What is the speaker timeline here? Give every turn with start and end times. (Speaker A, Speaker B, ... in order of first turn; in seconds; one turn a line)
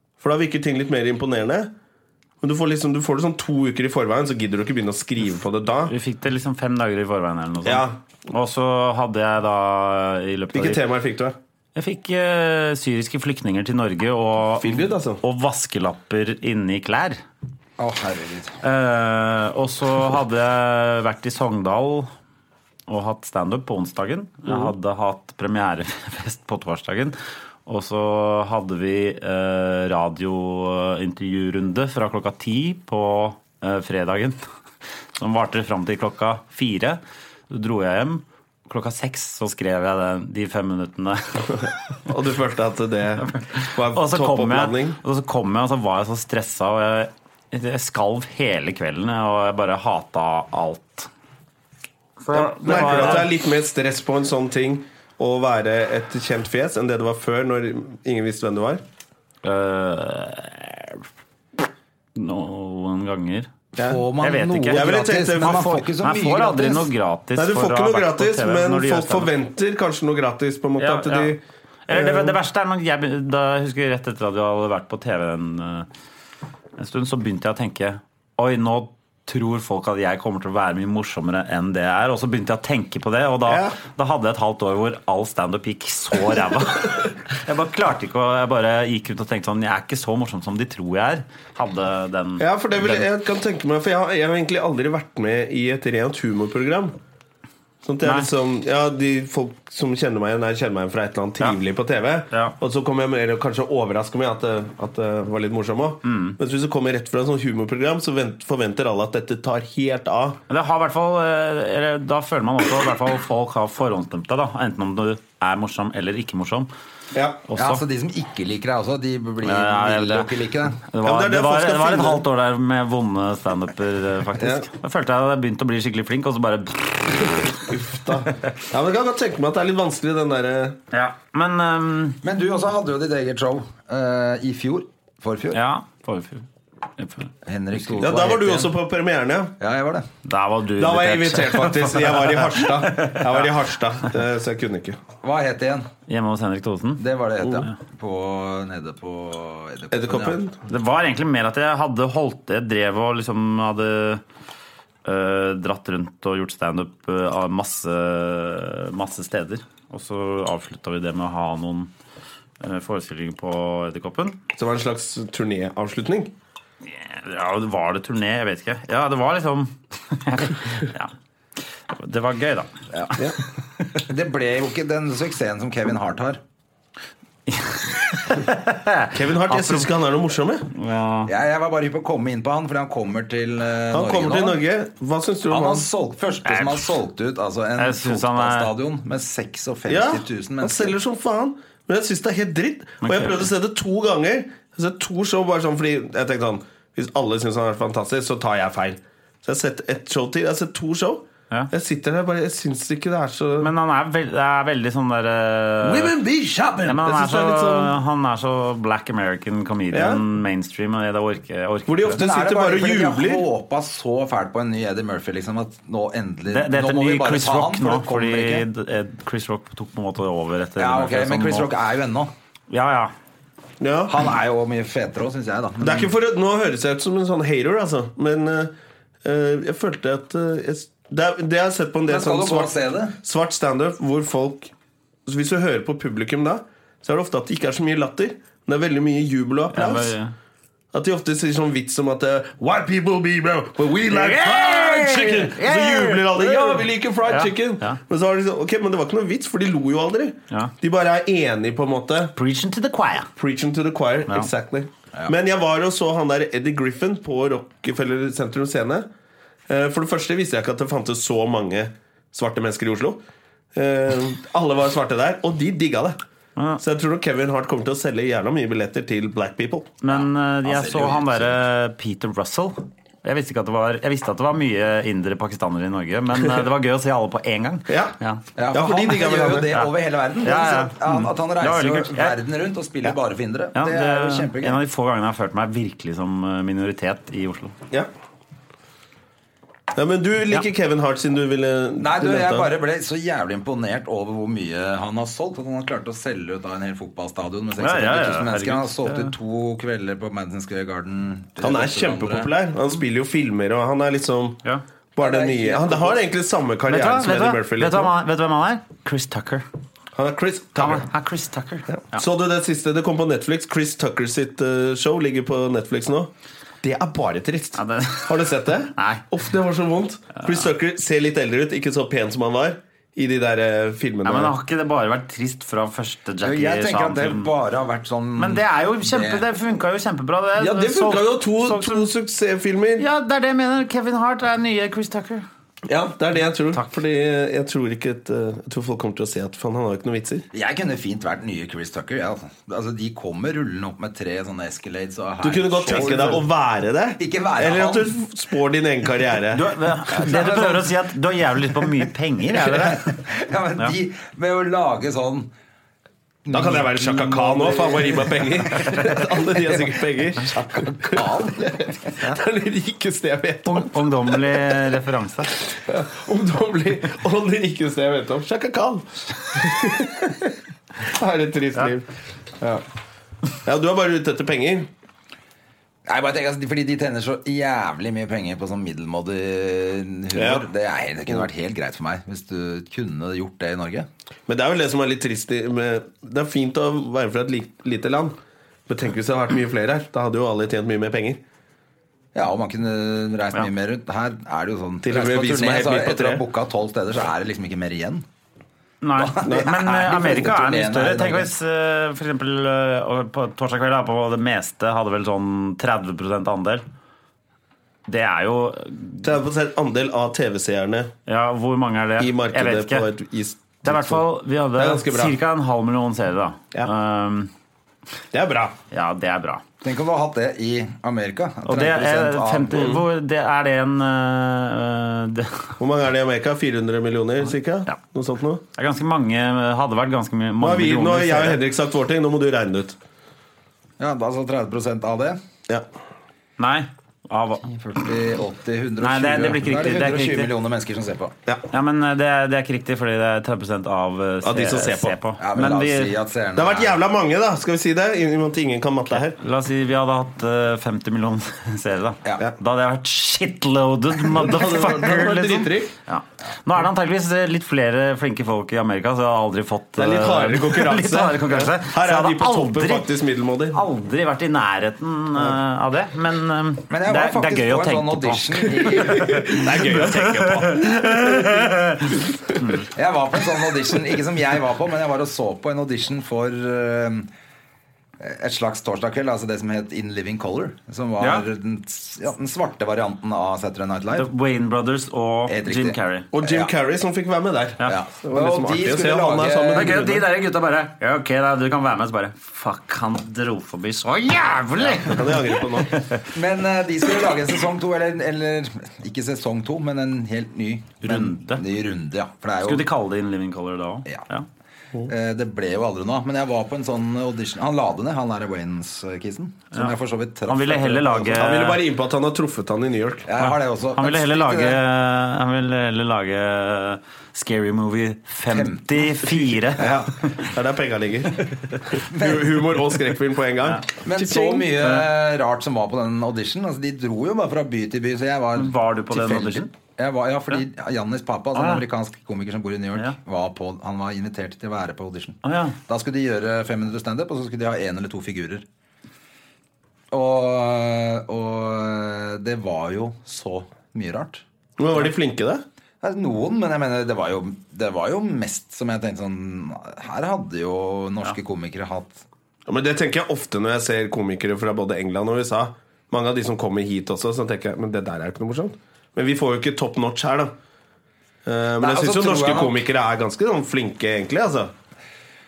Speaker A: 0.2-1.7
Speaker A: 2.4-5.9
Speaker B: 5.9-10.8
Speaker A: 7.6-8.0
Speaker A: 10.5-11.4
Speaker B: 11.7-17.2
Speaker A: 14.6-15.2
Speaker C: 17.8-18.6
Speaker B: 18.6-22.1
Speaker B: 22.9-34.4
Speaker B: 35.2-41.5
Speaker A: 42.0-45.0
Speaker B: 43.4-51.1
Speaker B: 52.2-53.3
Speaker A: 52.3-58.8
Speaker B: 59.4-61.0
Speaker B: 62.1-63.5
Speaker C: 63.8-66.9
Speaker B: 64.2-64.9
Speaker A: 64.7-65.8
Speaker B: 65.5-69.3
Speaker A: 67.3-72.4
Speaker B: 70.8-71.3
Speaker B: 71.9-75.9
Speaker B: 76.8-93.0
Speaker A: 83.5-83.8
Speaker A: 92.4-97.0
Speaker A: 97.8-110.4
Speaker B: 98.0-98.3
Speaker B: 106.0-106.4
Speaker B: 110.5-116.7
Speaker A: 117.1-117.4
Speaker B: 117.5-117.8
Speaker C: 117.5-120.8
Speaker B: 119.4-120.3
Speaker B: 120.9-127.6
Speaker A: 121.0-122.2
Speaker A: 124.4-124.7
Speaker A: 127.5-130.8
Speaker B: 130.9-132.2
Speaker C: 132.2-135.6
Speaker B: 135.5-136.4
Speaker B: 137.0-137.3
Speaker C: 137.4-138.7
Speaker A: 138.0-139.5
Speaker C: 139.6-140.1
Speaker B: 140.2-143.2
Speaker A: 140.8-145.0
Speaker C: 145.2-145.9
Speaker B: 146.1-147.7
Speaker C: 147.0-150.4
Speaker A: 149.9-150.6
Speaker B: 150.7-154.2
Speaker B: 155.0-161.9
Speaker B: 162.6-164.4
Speaker A: 164.6-166.3
Speaker B: 166.8-171.1
Speaker B: 171.9-173.3
Speaker C: 173.9-176.4
Speaker B: 177.5-179.9
Speaker A: 179.1-180.7
Speaker B: 180.7-181.3
Speaker C: 181.2-184.6
Speaker A: 183.9-185.9
Speaker C: 185.5-190.9
Speaker B: 186.4-186.9
Speaker B: 187.8-188.7
Speaker A: 189.9-203.7
Speaker B: 193.0-193.5
Speaker B: 203.6-206.1
Speaker A: 205.8-207.9
Speaker B: 206.8-212.2
Speaker A: 209.9-210.2
Speaker A: 211.9-213.4
Speaker C: 212.1-218.7
Speaker B: 216.5-221.7
Speaker C: 220.8-222.3
Speaker B: 222.7-223.1
Speaker A: 223.8-224.2
Speaker C: 224.1-226.1
Speaker A: 225.8-228.7
Speaker A: 229.2-234.7
Speaker C: 232.1-233.2
Speaker A: 235.2-240.1
Speaker B: 239.7-240.3
Speaker A: 240.9-252.3
Speaker B: 244.1-248.0
Speaker B: 252.3-253.3
Speaker A: 253.4-259.1
Speaker A: 259.7-263.2
Speaker A: 263.7-266.2
Speaker A: 266.8-269.9
Speaker B: 270.0-278.4
Speaker C: 270.1-271.6
Speaker A: 277.9-278.1
Speaker C: 278.6-284.8
Speaker A: 278.7-279.8
Speaker B: 280.4-282.4
Speaker B: 283.7-287.7
Speaker A: 289.9-292.7
Speaker C: 292.0-302.5
Speaker B: 297.8-299.3
Speaker A: 301.6-304.6
Speaker A: 305.1-308.1
Speaker C: 305.2-306.2
Speaker B: 306.9-309.6
Speaker A: 310.1-311.1
Speaker B: 310.7-312.2
Speaker A: 311.9-316.3
Speaker A: 316.8-324.5
Speaker B: 317.8-318.4
Speaker B: 318.9-319.2
Speaker B: 320.4-320.6
Speaker B: 324.2-327.5
Speaker C: 326.4-329.4
Speaker B: 328.4-332.1
Speaker A: 330.6-333.0
Speaker B: 333.0-335.4
Speaker A: 335.9-340.4
Speaker C: 340.5-346.4
Speaker A: 345.4-349.6
Speaker C: 347.2-348.1
Speaker B: 349.5-353.2
Speaker C: 350.1-350.9
Speaker C: 352.5-355.5
Speaker C: 356.4-361.9
Speaker A: 356.5-364.6
Speaker B: 363.6-365.5
Speaker A: 365.7-372.1
Speaker A: 373.6-374.9
Speaker C: 376.1-384.1
Speaker A: 380.3-380.7
Speaker A: 384.5-388.4
Speaker A: 388.9-391.4
Speaker C: 392.3-398.2
Speaker A: 395.0-396.4
Speaker B: 399.0-406.8
Speaker C: 399.2-401.5
Speaker A: 399.4-399.7
Speaker B: 408.1-409.3
Speaker A: 409.2-411.1
Speaker B: 411.3-413.1
Speaker A: 412.2-415.4
Speaker B: 413.8-417.5
Speaker A: 418.3-418.7
Speaker B: 418.9-419.6
Speaker C: 419.8-422.9
Speaker B: 421.6-425.8
Speaker A: 422.7-423.0
Speaker A: 425.8-428.6
Speaker B: 428.7-431.6
Speaker A: 430.6-433.0
Speaker C: 434.0-435.4
Speaker B: 436.6-437.7
Speaker C: 437.6-441.3
Speaker B: 439.0-440.5
Speaker B: 441.7-446.1
Speaker A: 444.4-445.2
Speaker C: 445.4-447.0
Speaker A: 446.5-449.4
Speaker B: 449.1-463.1
Speaker A: 454.3-455.9
Speaker A: 460.0-463.8
Speaker B: 463.7-472.9
Speaker C: 466.9-469.5
Speaker A: 468.8-471.7
Speaker C: 472.9-477.3
Speaker C: 478.2-484.3
Speaker B: 481.2-481.4
Speaker B: 484.1-486.3
Speaker C: 485.5-486.7
Speaker A: 486.3-490.3
Speaker C: 487.8-490.0
Speaker B: 489.7-495.2
Speaker A: 494.9-495.9
Speaker B: 495.9-496.2
Speaker C: 496.3-502.9
Speaker B: 501.0-501.6
Speaker B: 502.6-504.4
Speaker C: 505.1-511.5
Speaker B: 510.5-511.8
Speaker A: 511.4-513.3
Speaker C: 513.3-514.8
Speaker B: 513.4-520.4
Speaker C: 518.5-519.1
Speaker A: 519.5-524.7
Speaker C: 519.8-520.1
Speaker C: 522.1-522.6
Speaker C: 524.0-538.6
Speaker B: 528.6-529.7
Speaker B: 531.5-531.8
Speaker B: 535.4-535.8
Speaker C: 540.1-544.4
Speaker A: 544.8-545.6
Speaker C: 546.0-552.2
Speaker A: 552.7-560.5
Speaker A: 561.5-564.7
Speaker C: 561.8-562.8